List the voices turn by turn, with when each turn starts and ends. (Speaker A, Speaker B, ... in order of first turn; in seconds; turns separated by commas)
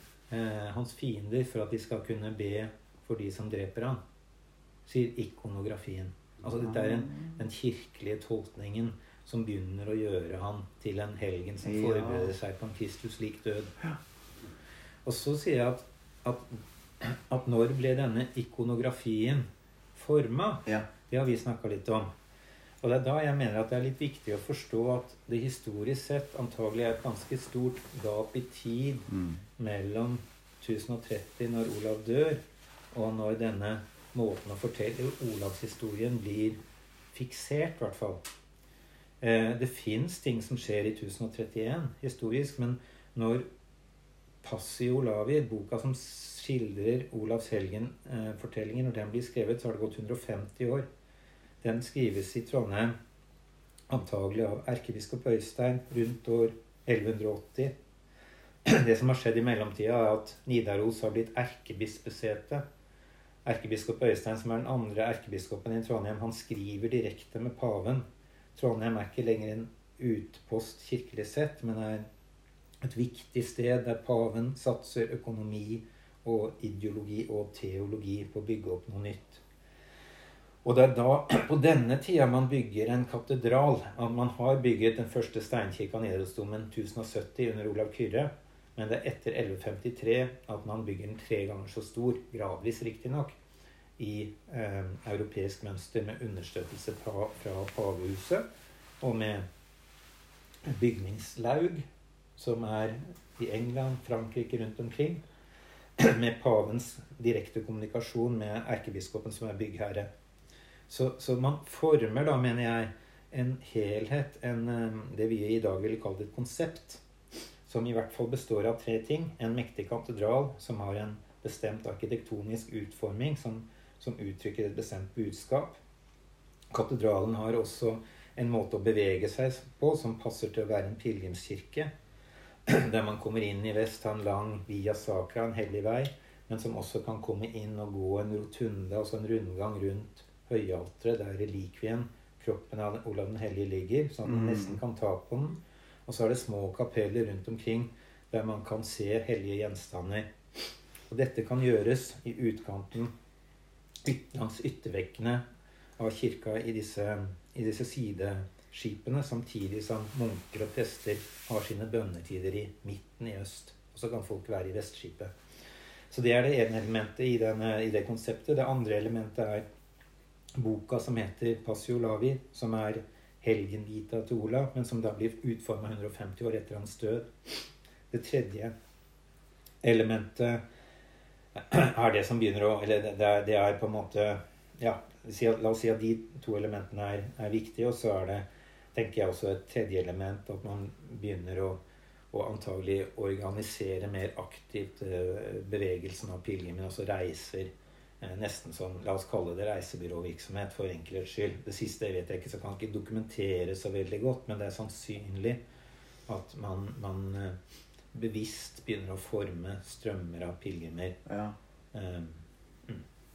Speaker A: 0.3-4.0, Speaker A: 4.9-13.7, Speaker B: 6.5-7.4, Speaker B: 11.6-12.3, Speaker A: 15.1-22.1, Speaker A: 22.8-36.6, Speaker B: 29.1-29.4, Speaker A: 37.1-38.2, Speaker A: 39.2-43.5, Speaker A: 44.4-50.9, Speaker A: 51.6-53.0, Speaker A: 53.9-57.7, Speaker A: 58.6-62.6, Speaker A: 63.5-68.0, Speaker A: 68.5-72.1, Speaker A: 72.8-79.4, Speaker A: 80.6-93.4, Speaker A: 94.0-98.4, Speaker A: 99.0-99.5, Speaker A: 100.6-101.9, Speaker A: 102.4-105.2, Speaker A: 106.0-110.1, Speaker A: 110.9-117.0, Speaker A: 117.7-125.8, Speaker A: 126.7-131.9, Speaker A: 132.7-153.2, Speaker B: 144.3-144.8, Speaker A: 154.0-155.4, Speaker A: 156.0-165.3, Speaker A: 166.1-169.7, Speaker A: 170.6-178.7, Speaker A: 179.8-180.6, Speaker A: 181.6-191.8, Speaker A: 192.3-205.6, Speaker A: 206.3-207.6, Speaker A: 208.1-211.2, Speaker B: 211.3-211.6, Speaker A: 211.9-213.0